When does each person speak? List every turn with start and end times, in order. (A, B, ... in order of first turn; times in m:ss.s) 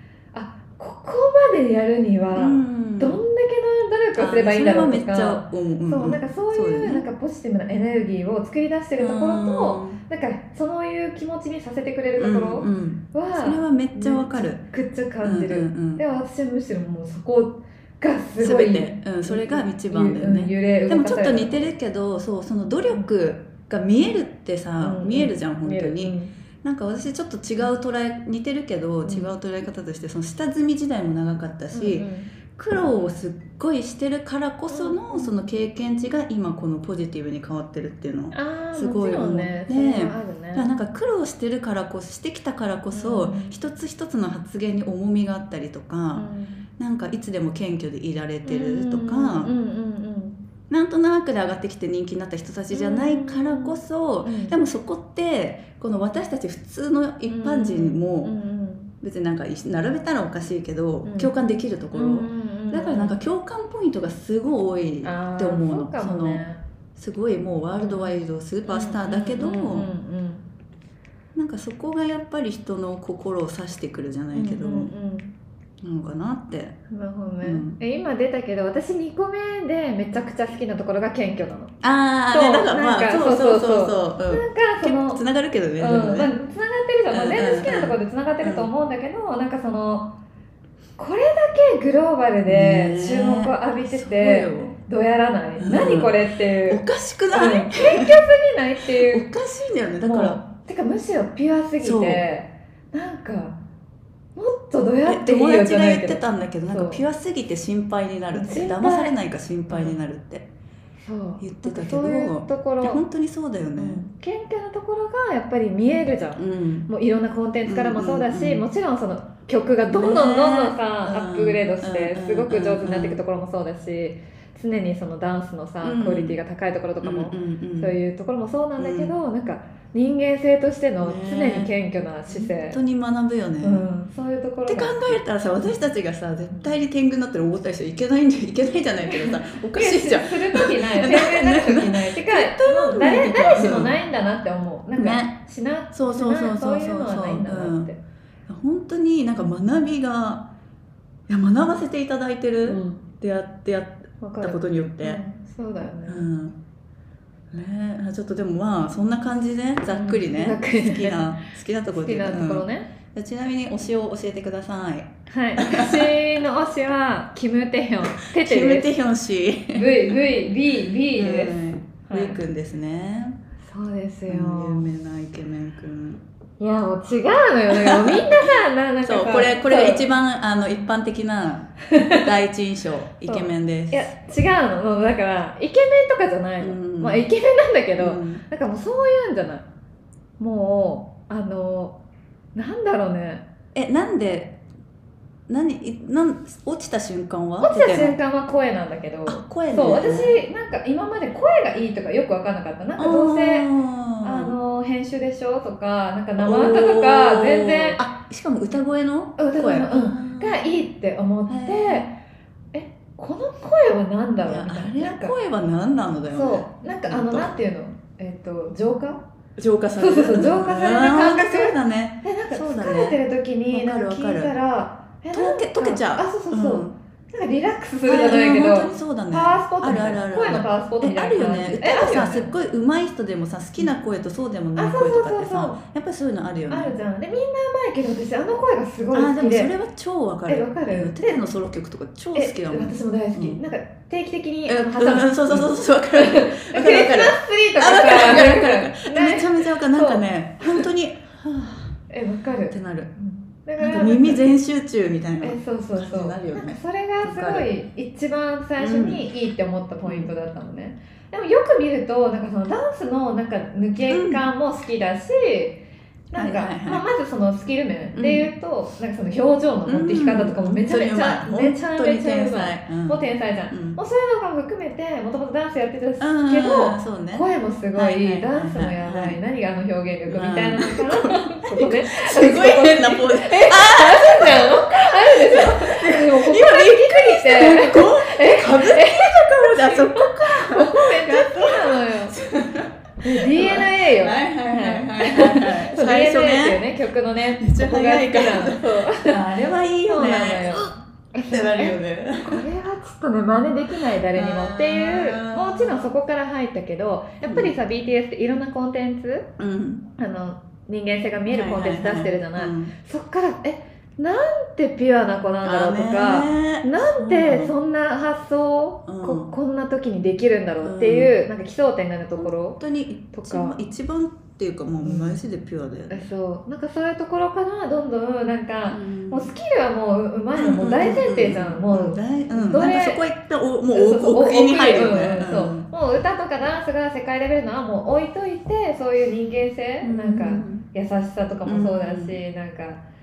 0:00.3-0:21.6 A
0:02.4-0:03.2 B
0:04.2-0:07.0 B
0:09.0-0:10.0 B
0:12.2-0:14.6 B
0:15.2-0:16.0 B
0:18.4-0:49.5 B
0:24.8-0:26.3 A
0:31.7-0:32.3 A
0:34.7-0:35.3 A
0:38.3-0:40.7 A
0:42.9-0:43.6 A
0:46.1-0:46.7 A
0:48.4-0:50.4 A
0:50.7-0:58.4 B
0:52.7-0:54.6 A
0:57.3-0:58.9 A
0:59.0-1:09.9 B
1:01.0-1:01.4 A
1:01.9-1:03.2 A
1:05.0-1:06.6 A
1:07.8-1:08.1 A
1:08.7-1:10.4 A
1:11.4-1:14.9 B
1:14.3-1:15.3 A
1:15.8-1:16.8 B
1:16.9-1:21.7 A
1:17.4-1:17.8 B
1:21.8-1:26.3 B
1:22.3-1:25.2 A
1:25.8-1:30.1 A
1:27.1-1:28.7 B
1:31.0-1:39.3 A
1:32.5-1:34.7 B
1:35.6-1:36.2 B
1:36.7-1:38.2 B
1:39.1-1:40.4 B
1:40.1-1:43.6 A
1:41.8-1:42.2 B
1:44.4-1:47.0 A
1:45.1-1:50.5 B
1:48.3-1:49.2 A
1:49.7-1:50.0 A
1:51.0-1:53.0 A
1:51.4-1:54.0 B
1:53.8-2:12.8 A
1:56.4-1:56.9 B
1:57.6-1:58.6 B
1:59.9-2:03.2 B
2:05.8-2:06.4 B
2:07.0-2:08.0 B
2:08.8-2:09.1 B
2:11.0-2:11.7 B
2:12.3-2:13.9 B
2:13.6-2:15.2 A
2:14.7-2:24.0 B
2:19.1-2:28.0 A
2:25.0-2:25.4 B
2:25.9-2:27.9 B
2:28.5-2:30.5 B
2:31.3-2:35.2 B
2:32.6-2:33.1 A
2:34.2-2:36.3 A
2:36.1-2:36.6 B
2:37.5-2:46.1 B
2:39.9-2:42.9 A
2:45.3-2:48.9 A
2:48.2-2:50.0 B
2:49.7-2:52.4 A
2:51.1-2:53.4 B
2:53.6-2:54.9 A
2:54.3-2:56.2 B
2:56.6-3:00.0 A
2:57.7-3:04.1 B
3:01.9-3:02.3 A
3:03.3-3:09.6 A
3:06.6-3:07.3 B
3:08.0-3:08.4 B
3:10.4-3:12.0 A
3:12.6-3:13.4 A
3:13.8-3:14.6 B
3:15.5-3:18.2 B
3:17.6-3:23.7 A
3:19.3-3:20.4 B
3:23.0-3:24.6 B
3:24.2-3:28.0 A
3:26.4-3:30.6 B
3:29.4-3:32.2 A
3:31.5-3:32.1 B
3:32.7-3:35.3 A
3:34.4-3:37.5 B
3:36.3-3:39.2 A
3:39.6-3:44.5 B
3:40.0-3:52.5 A
3:45.3-3:47.0 B
3:48.0-3:56.9 B
3:54.8-3:55.8 A
3:56.7-3:59.7 A
3:59.1-4:03.6 B
4:00.5-4:01.4 A
4:02.3-4:10.9 A
4:04.7-4:12.0 B
4:12.1-4:14.4 A
4:12.7-4:13.1 B
4:13.8-4:17.7 B
4:15.4-4:25.8 A
4:18.8-4:19.3 B
4:20.1-4:20.3 B
4:24.1-4:24.4 B
4:26.3-4:52.4 A
4:26.4-4:27.1 B
4:28.1-4:28.5 B
4:29.9-4:34.0 B
4:36.2-4:39.4 B
4:40.3-4:56.8 B
4:53.2-5:09.5 A
4:57.6-5:01.0 B
5:01.5-5:02.6 B
5:04.3-5:06.1 B
5:07.4-5:07.8 B
5:09.6-5:10.1 B
5:10.2-5:22.8 A
5:11.5-5:12.9 B
5:15.6-5:17.7 B
5:19.1-5:19.5 B
5:20.8-5:21.4 B
5:22.4-5:26.3 B
5:23.3-5:23.8 A
5:25.0-5:25.4 A
5:26.1-5:33.2 A
5:28.9-5:29.5 B
5:30.6-5:35.9 B
5:33.9-5:43.0 A
5:40.0-5:40.9 B
5:41.6-5:42.4 B